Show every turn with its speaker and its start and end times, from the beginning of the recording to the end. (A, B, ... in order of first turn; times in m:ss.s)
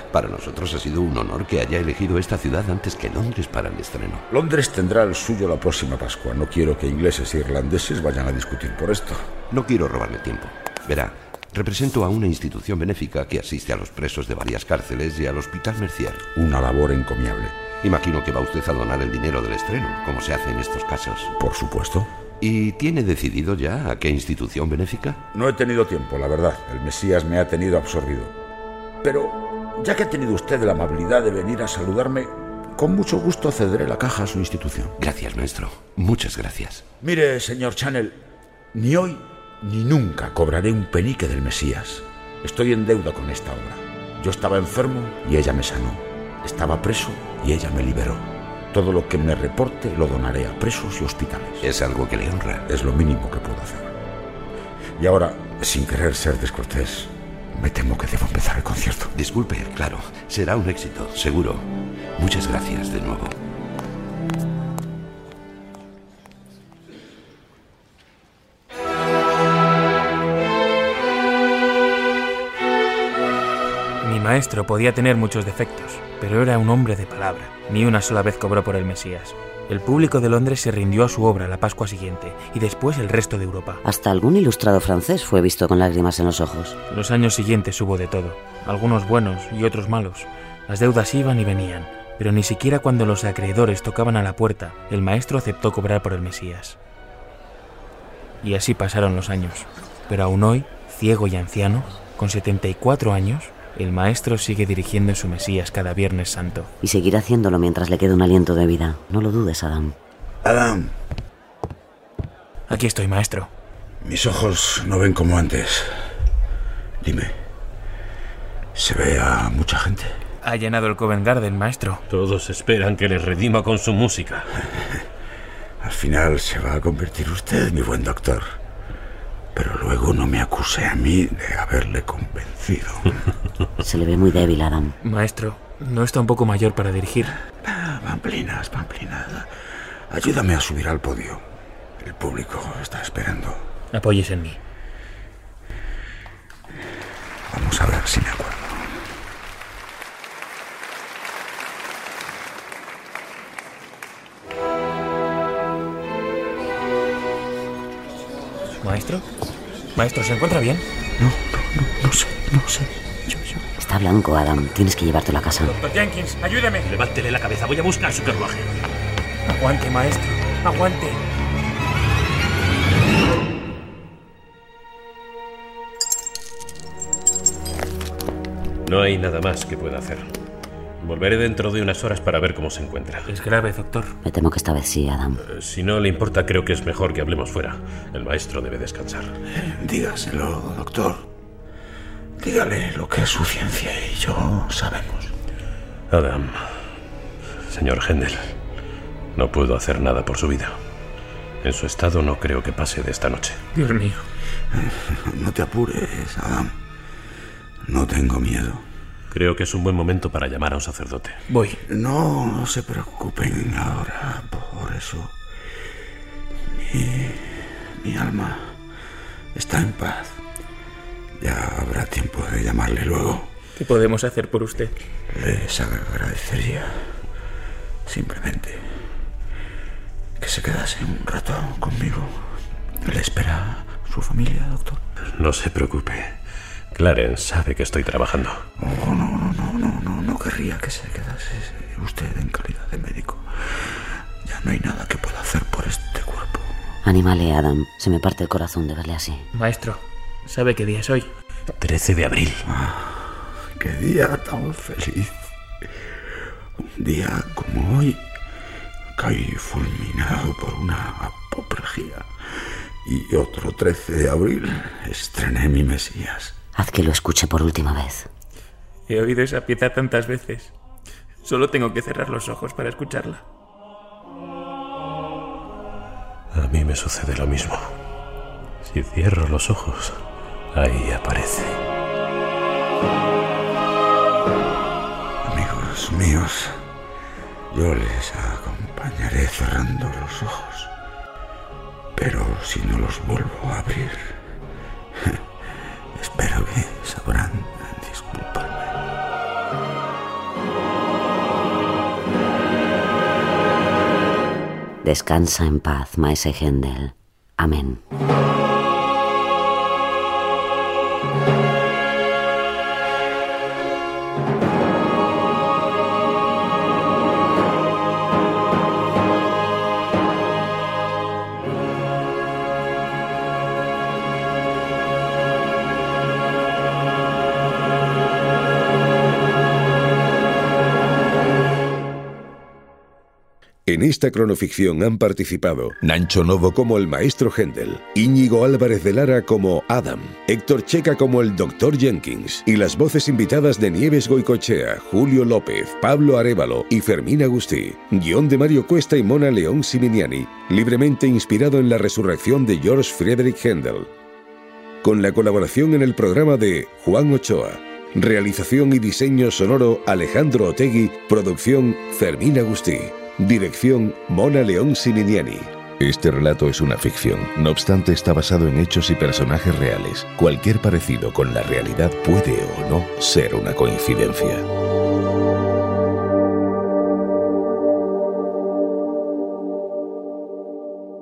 0:00.1-0:04.3 A
0:04.3-0:09.3 B
0:09.5-0:16.2 A
0:16.4-0:17.6 B
0:17.8-0:21.3 A
0:21.4-0:22.1 B
0:22.4-0:25.2 A
0:25.3-0:28.4 B
0:29.0-0:35.0 B
0:35.0-0:36.8 A
0:37.0-0:38.2 B
0:38.7-0:51.6 B
0:51.6-0:52.6 A
0:52.7-0:54.0 B
0:55.0-0:59.1 B
0:59.2-1:03.4 A
1:14.0-1:23.8 C
1:23.8-1:26.8 D
1:26.9-1:36.8 C
1:38.4-1:46.7 C
1:46.8-1:50.0 D
1:50.4-1:50.9 B
1:52.7-1:53.5 C
1:54.0-1:55.9 B
1:57.0-1:57.3 B
1:58.8-2:00.1 B
2:00.4-2:02.0 C
2:02.1-2:04.5 E
2:05.8-2:08.6 B
2:09.6-2:13.2 B
2:13.8-2:15.0 D
2:15.0-2:17.4 C
2:17.6-2:19.5 B
2:20.1-2:21.4 B
2:22.0-2:23.7 B
2:23.9-2:24.6 C
2:27.5-2:29.0 B
2:38.8-2:39.3 C
2:40.0-2:40.8 C
2:41.2-2:43.6 B
2:43.8-2:45.8 D
2:45.6-2:46.9 C
2:46.8-2:48.7 E
2:49.5-2:51.2 C
2:58.8-3:00.3 E
3:01.0-3:03.3 E
3:03.3-3:04.2 C
3:04.2-3:05.4 D
3:05.4-3:09.3 E
3:09.5-3:11.3 B
3:12.4-3:15.3 B
3:16.1-3:16.7 E
3:17.7-3:18.5 E
3:19.4-3:20.8 E
3:21.6-3:23.6 E
3:23.8-3:24.2 C
3:24.7-3:26.7 B
3:27.9-3:28.8 B
3:29.3-3:31.4 E
3:31.5-3:31.8 C
3:31.8-3:35.4 B
3:36.7-3:38.7 B
3:39.5-3:40.4 B
3:41.4-3:43.5 B
3:43.8-3:44.9 C
3:45.3-3:46.9 B
3:48.1-3:48.8 B
3:50.4-3:52.4 B
3:53.0-3:55.0 B
3:55.4-3:56.4 E
3:56.9-3:58.6 E
3:58.8-4:03.5 B
4:04.4-4:06.7 B
4:07.0-4:09.5 D
4:09.5-4:11.3 C
4:11.8-4:12.7 E
4:12.7-4:15.4 B
4:16.8-4:18.2 B
4:19.2-4:22.3 B
4:23.0-4:26.6 B
4:26.8-4:28.3 D
4:29.1-4:30.7 C
4:31.4-4:33.4 C
4:36.5-4:37.8 E
4:38.8-4:40.2 E
4:40.7-4:41.8 E
4:45.4-4:46.8 B
4:47.7-4:50.9 B
4:52.1-4:54.4 B
4:55.2-4:55.4 B
4:56.1-4:59.0 B
5:05.0-5:08.0 D
5:33.9-5:54.1 F
5:55.0-6:14.7 F